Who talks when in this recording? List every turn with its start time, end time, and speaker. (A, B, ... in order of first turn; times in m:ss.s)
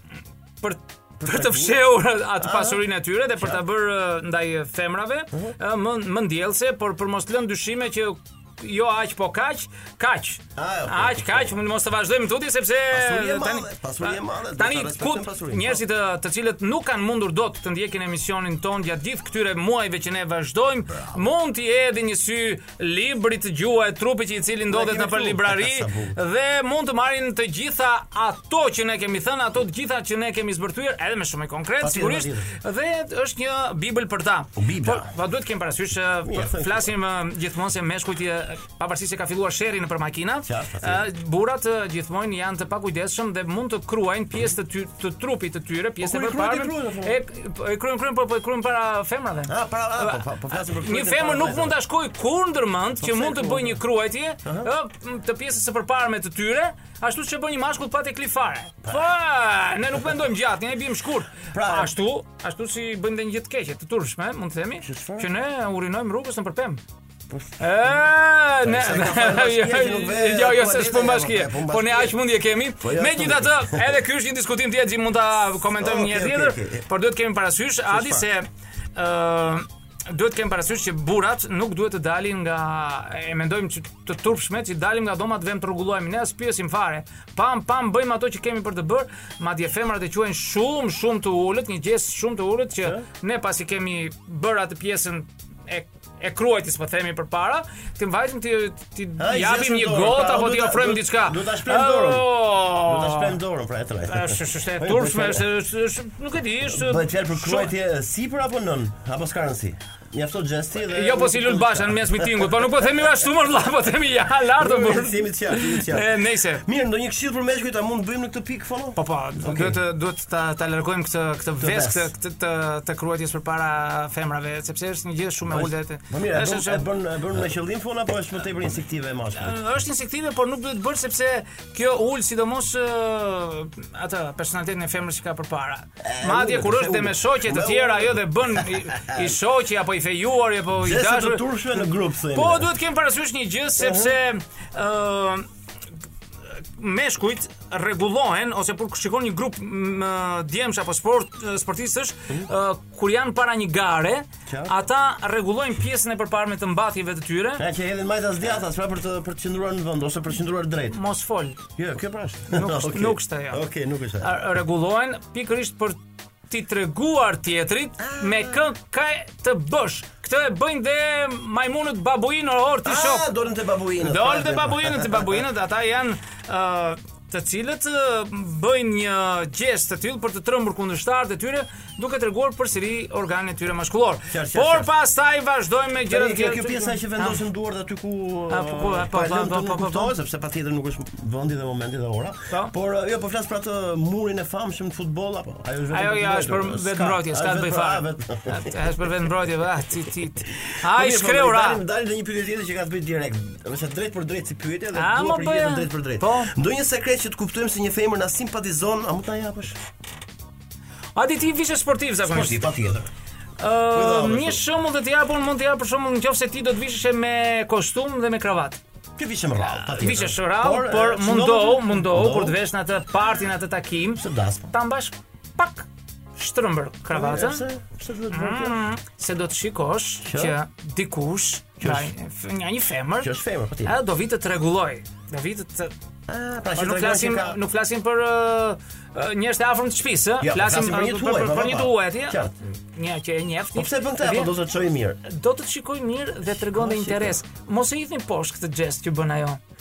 0:00.6-1:06.8 A
0:01.2-0:01.8 B
0:02.4-0:02.8 B
0:03.4-0:03.6 B
0:10.6-0:11.6 B
0:12.9-0:15.8 B
0:24.7-0:26.2 B
0:31.8-0:32.5 B
0:34.6-0:35.1 B
0:36.2-0:36.9 B
0:40.4-0:41.1 B
0:46.0-0:47.2 B
0:49.5-0:51.8 B
0:53.0-0:53.8 B
0:54.4-0:54.7 B
0:58.8-0:59.1 B
1:01.5-1:01.9 B
1:04.8-1:05.3 B
1:07.3-1:08.1 B
1:07.6-1:43.4 A
1:08.6-1:12.2 B
1:12.8-1:14.0 B
1:15.7-1:16.8 B
1:17.9-1:18.2 B
1:39.2-1:45.5 B
1:44.1-1:47.7 A
1:46.6-1:52.7 B
1:50.9-1:56.6 A
1:54.6-1:59.8 B
1:59.0-2:06.9 A
2:01.6-2:02.1 B
2:05.5-2:09.6 B
2:09.3-2:25.4 A
2:16.0-2:19.4 B
2:20.7-2:22.7 B
2:23.8-2:24.1 B
2:26.8-2:37.6 A
2:34.5-2:34.8 B
2:37.6-2:41.0 B
2:40.9-2:41.6 A
2:41.8-2:44.4 B
2:42.5-2:43.6 A
2:44.2-2:46.0 A
2:46.5-2:53.3 A
2:48.0-2:48.6 B
2:52.8-2:55.4 B
2:54.0-3:07.4 A
3:04.3-3:04.9 B
3:06.0-3:19.1 B
3:08.5-3:10.1 A
3:15.9-3:21.8 A
3:20.6-3:29.8 B
3:24.9-3:26.5 A
3:31.2-3:32.7 A
3:32.2-3:33.1 B
3:33.6-3:38.8 A
3:33.9-3:34.6 B
3:39.2-3:42.6 B
3:39.8-3:47.6 A
3:44.2-3:44.7 B
3:47.1-3:48.8 B
3:48.3-3:53.3 A
3:50.2-3:50.6 B
3:51.8-3:52.1 B
3:53.2-3:54.0 B
3:53.8-3:55.9 A
3:56.3-3:57.6 B
3:56.7-4:04.5 A
4:00.4-4:02.5 B
4:03.7-4:05.2 B
4:05.2-4:09.6 A
4:06.6-4:07.4 B